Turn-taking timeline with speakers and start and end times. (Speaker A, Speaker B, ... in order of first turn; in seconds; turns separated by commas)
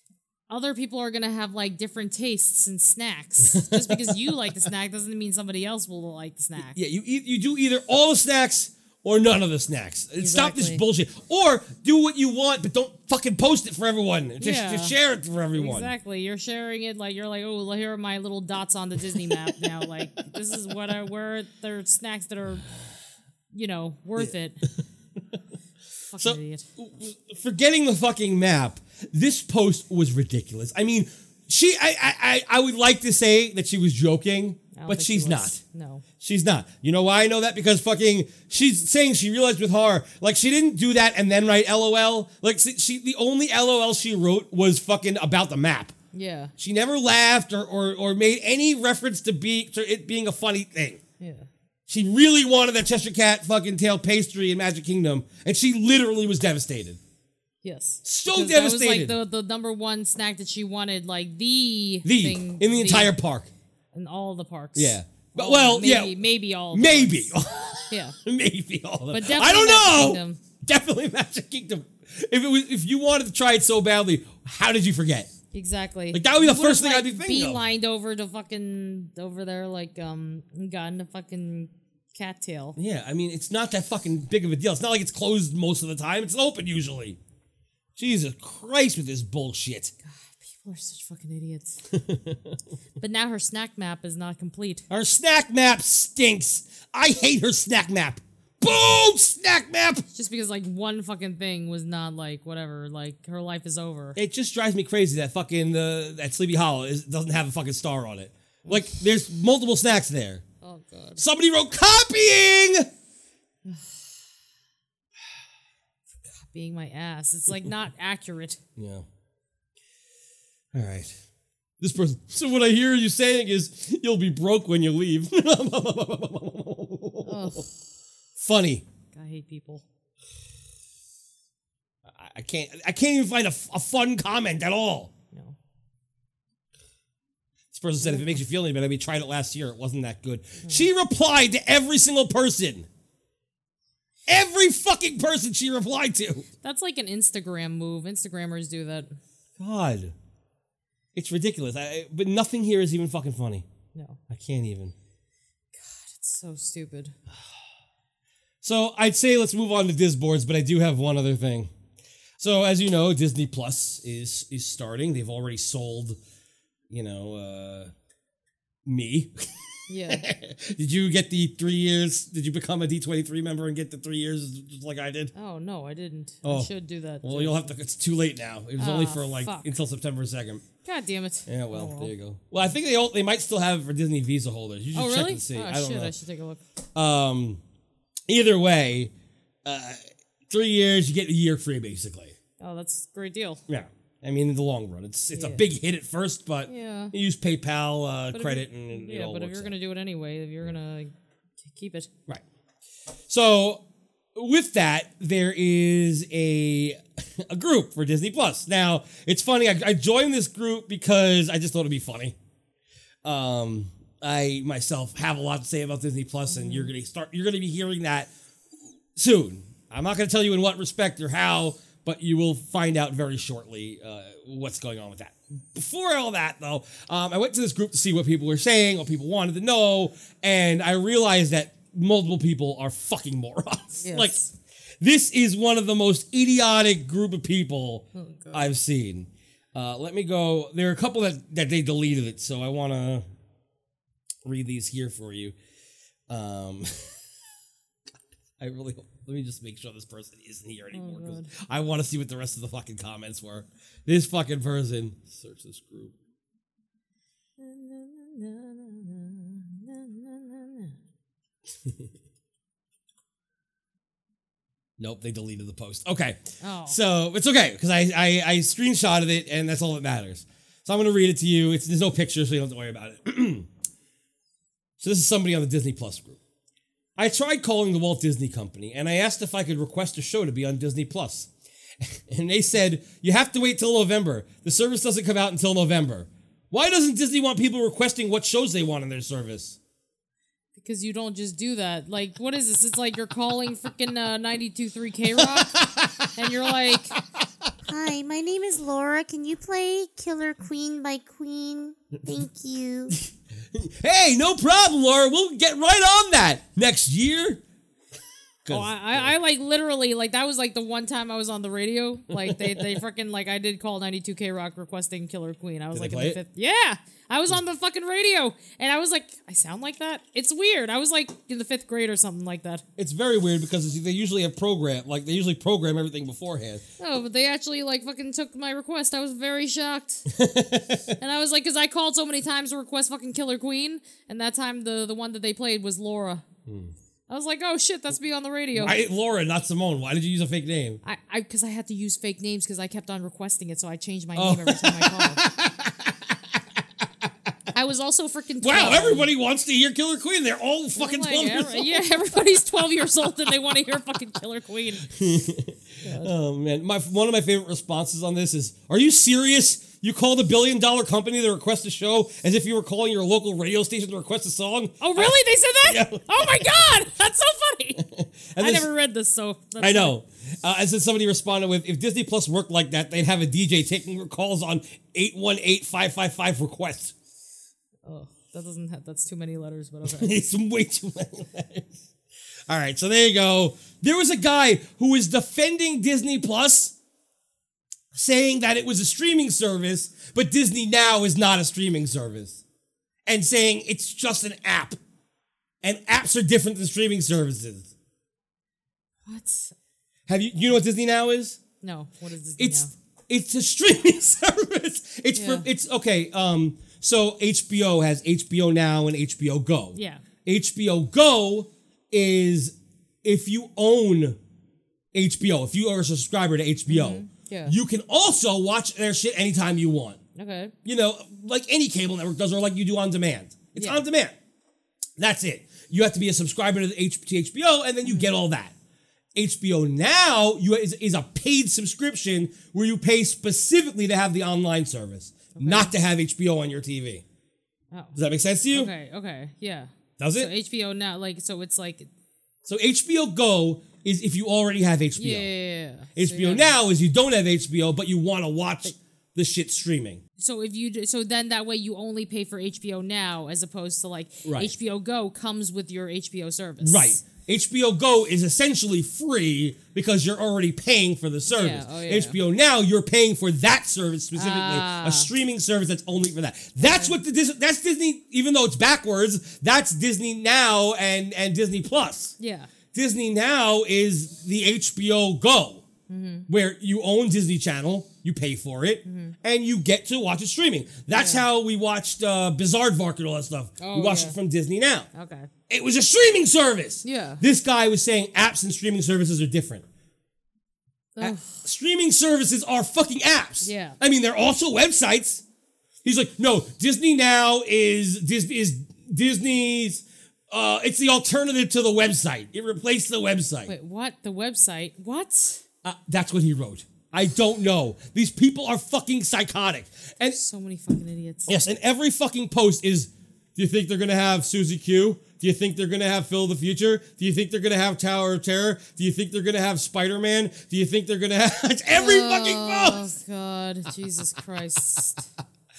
Speaker A: 0.5-6.8, Speaker B: 3.5-4.2, Speaker B: 6.6-15.9, Speaker A: 10.2-10.8, Speaker A: 14.4-15.0, Speaker A: 15.5-22.6, Speaker A: 23.5-24.6, Speaker A: 26.1-26.7, Speaker B: 26.2-35.6, Speaker A: 34.7-36.0, Speaker B: 36.2-45.9, Speaker A: 46.1-46.5, Speaker B: 46.6-51.0, Speaker A: 51.2-51.5, Speaker B: 51.9-57.0, Speaker A: 57.6-63.1, Speaker B: 58.0-59.2, Speaker B: 62.0-63.5, Speaker A: 63.9-67.3, Speaker B: 64.7-66.2, Speaker B: 66.7-75.3, Speaker A: 67.9-68.2, Speaker A: 69.1-70.4, Speaker A: 75.5-82.8, Speaker B: 76.1-77.6, Speaker B: 82.8-87.2, Speaker B: 88.0-89.9, Speaker A: 90.0-91.8, Speaker B: 91.9-92.5, Speaker A: 93.0-94.8, Speaker B: 94.9-100.0, Speaker A: 100.1-104.2, Speaker B: 104.2-110.4, Speaker A: 108.6-108.9, Speaker A: 110.6-111.2, Speaker B: 111.2-112.9, Speaker A: 113.6-114.1, Speaker A: 116.3-118.6, Speaker B: 118.8-119.0, Speaker B: 120.7-121.2, Speaker B: 121.8-127.6, Speaker A: 127.2-127.7, Speaker B: 128.4-128.8, Speaker A: 129.1-129.8, Speaker B: 132.0-135.1, Speaker B: 137.7-142.9, Speaker A: 138.0-138.4, Speaker B: 144.3-146.4, Speaker A: 146.6-149.2, Speaker B: 149.6-150.1, Speaker B: 151.1-153.7, Speaker A: 153.9-154.2, Speaker B: 154.3-154.9, Speaker A: 155.8-157.2, Speaker B: 158.6-161.7, Speaker B: 162.4-166.2, Speaker B: 166.9-167.9, Speaker B: 168.8-169.4, Speaker A: 169.9-170.2, Speaker B: 170.0-175.3, Speaker A: 175.3-177.7, Speaker B: 176.4-180.6, Speaker A: 178.8-179.7, Speaker A: 180.8-182.1, Speaker B: 181.5-186.1, Speaker A: 184.9-186.6, Speaker B: 186.9-187.6, Speaker B: 188.3-189.1, Speaker B: 189.6-192.3, Speaker A: 192.6-193.6, Speaker B: 193.7-199.7, Speaker A: 195.3-195.6, Speaker A: 196.7-197.1, Speaker A: 198.3-202.1, Speaker B: 203.3-203.8, Speaker B: 204.3-212.3, Speaker B: 213.2-218.3, Speaker A: 216.5-216.9, Speaker B: 219.2-234.4, Speaker A: 234.0-234.5, Speaker B: 235.0-243.2, Speaker A: 238.1-238.7, Speaker B: 244.4-245.5, Speaker B: 246.3-247.1, Speaker B: 248.6-256.1, Speaker A: 250.9-251.5, Speaker A: 257.6-260.9, Speaker B: 265.0-273.7, Speaker A: 266.6-267.0, Speaker B: 275.0-276.4, Speaker B: 277.2-281.5, Speaker B: 282.0-289.8, Speaker A: 290.8-295.8, Speaker B: 295.4-296.3, Speaker A: 296.3-297.1, Speaker C: 297.9-303.1, Speaker B: 303.7-307.6, Speaker B: 308.6-309.4, Speaker A: 308.7-322.8, Speaker B: 312.3-312.8, Speaker B: 315.9-316.4, Speaker B: 323.0-326.8, Speaker A: 327.0-330.2, Speaker B: 330.3-331.1, Speaker A: 331.2-336.4, Speaker B: 336.6-336.9, Speaker A: 337.3-339.0, Speaker B: 338.7-341.0, Speaker A: 341.0-345.4, Speaker B: 344.4-346.1, Speaker A: 347.7-349.3, Speaker B: 348.6-352.0, Speaker A: 351.0-355.3, Speaker B: 355.1-366.8, Speaker A: 356.0-356.3, Speaker A: 365.0-368.0, Speaker B: 368.0-368.9, Speaker A: 368.6-370.2, Speaker B: 369.8-377.1, Speaker A: 378.0-380.3, Speaker B: 380.0-382.1, Speaker B: 382.7-386.9, Speaker B: 388.1-392.6, Speaker B: 393.2-395.0, Speaker B: 395.8-397.9, Speaker A: 399.2-399.7, Speaker B: 400.3-401.6, Speaker A: 401.8-402.9, Speaker B: 402.6-414.4, Speaker A: 405.3-405.7, Speaker A: 409.9-410.2, Speaker B: 415.1-420.2, Speaker A: 416.9-417.8, Speaker A: 420.4-420.7, Speaker B: 420.8-424.3, Speaker A: 423.7-424.0, Speaker B: 425.2-428.7, Speaker A: 428.0-428.3, Speaker B: 429.3-437.2, Speaker A: 435.5-435.9, Speaker A: 437.9-438.2, Speaker B: 438.1-438.9, Speaker A: 438.7-442.1, Speaker B: 440.2-440.5, Speaker B: 442.6-445.5, Speaker A: 445.1-446.8, Speaker B: 446.1-450.2, Speaker A: 450.4-457.2, Speaker B: 454.4-454.7, Speaker B: 456.8-472.3, Speaker A: 461.5-462.4, Speaker A: 464.3-465.3, Speaker A: 466.8-467.1, Speaker A: 472.4-472.7, Speaker B: 472.9-475.9, Speaker A: 476.1-476.5, Speaker B: 476.5-485.1, Speaker A: 479.1-479.3, Speaker A: 481.1-481.4, Speaker A: 483.8-484.4, Speaker A: 485.1-485.5, Speaker B: 485.7-489.8, Speaker A: 487.0-487.4, Speaker A: 491.1-491.6, Speaker B: 491.2-495.4, Speaker A: 493.6-494.0, Speaker B: 496.0-503.7, Speaker A: 503.6-505.6, Speaker B: 505.8-510.4, Speaker A: 510.3-511.6, Speaker B: 511.5-523.1, Speaker A: 521.9-525.2